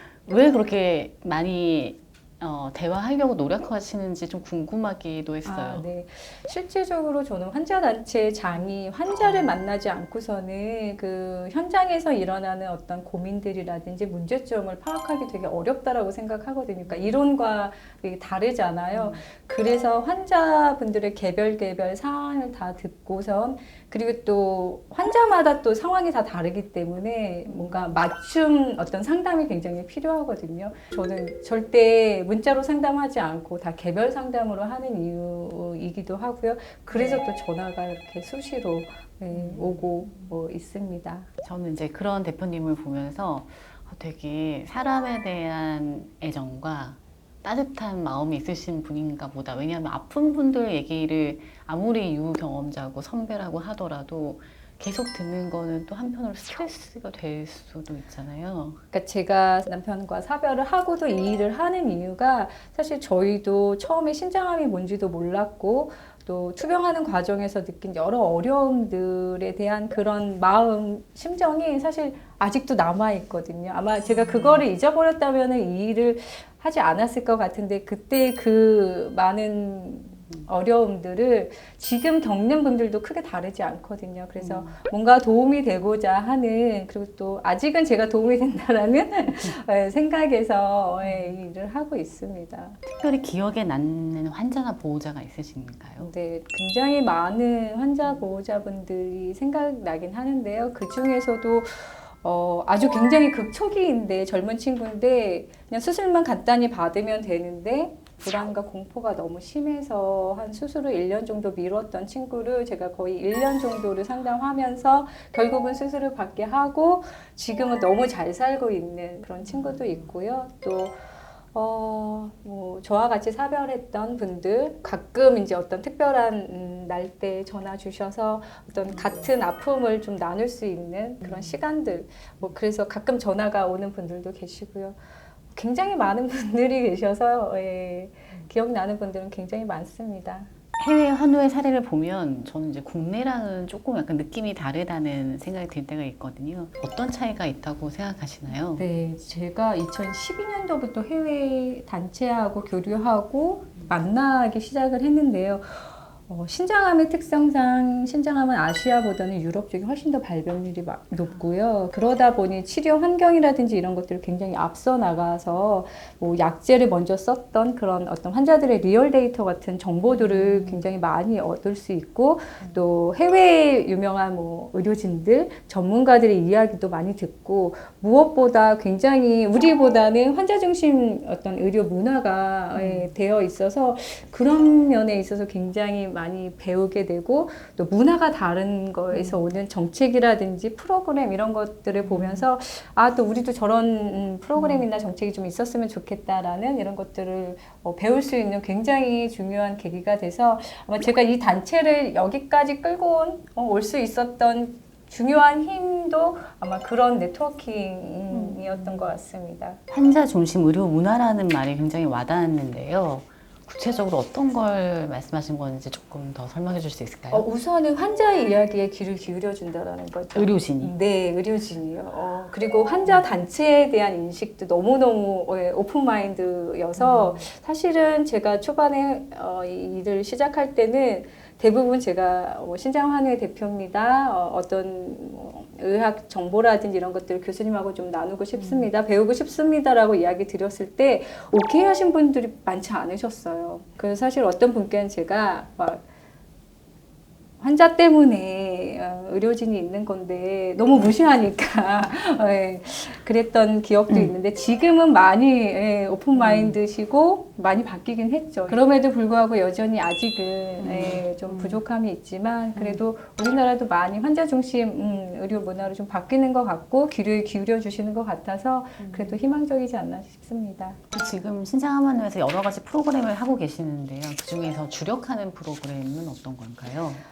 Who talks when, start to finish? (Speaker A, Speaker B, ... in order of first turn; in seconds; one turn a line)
Speaker A: 0.2-5.9
Speaker B: 5.5-41.3
Speaker A: 18.9-19.2
Speaker A: 27.4-28.0
Speaker A: 36.9-37.2
Speaker A: 39.3-39.9
Speaker A: 41.4-58.8
Speaker B: 58.9-92.8
Speaker A: 84.4-84.8
Speaker A: 89.3-89.5
Speaker A: 91.0-91.4
Speaker A: 92.9-96.1
Speaker B: 96.0-121.0
Speaker A: 119.5-119.9
Speaker B: 121.5-135.0
Speaker A: 131.2-131.6
Speaker B: 135.5-140.5
Speaker A: 140.8-148.9
Speaker B: 148.8-209.8
Speaker A: 170.1-170.8
Speaker A: 182.8-183.1
Speaker A: 189.1-189.5
Speaker A: 191.9-192.5
Speaker A: 194.6-194.9
Speaker A: 208.3-209.2
Speaker A: 209.9-217.5
Speaker B: 217.3-246.1
Speaker A: 220.3-220.9
Speaker A: 227.0-227.4
Speaker A: 238.6-238.9
Speaker B: 247.6-271.0
Speaker A: 256.4-256.8
Speaker A: 260.8-261.8
Speaker A: 262.8-263.0
Speaker A: 269.0-269.4
Speaker A: 271.1-277.2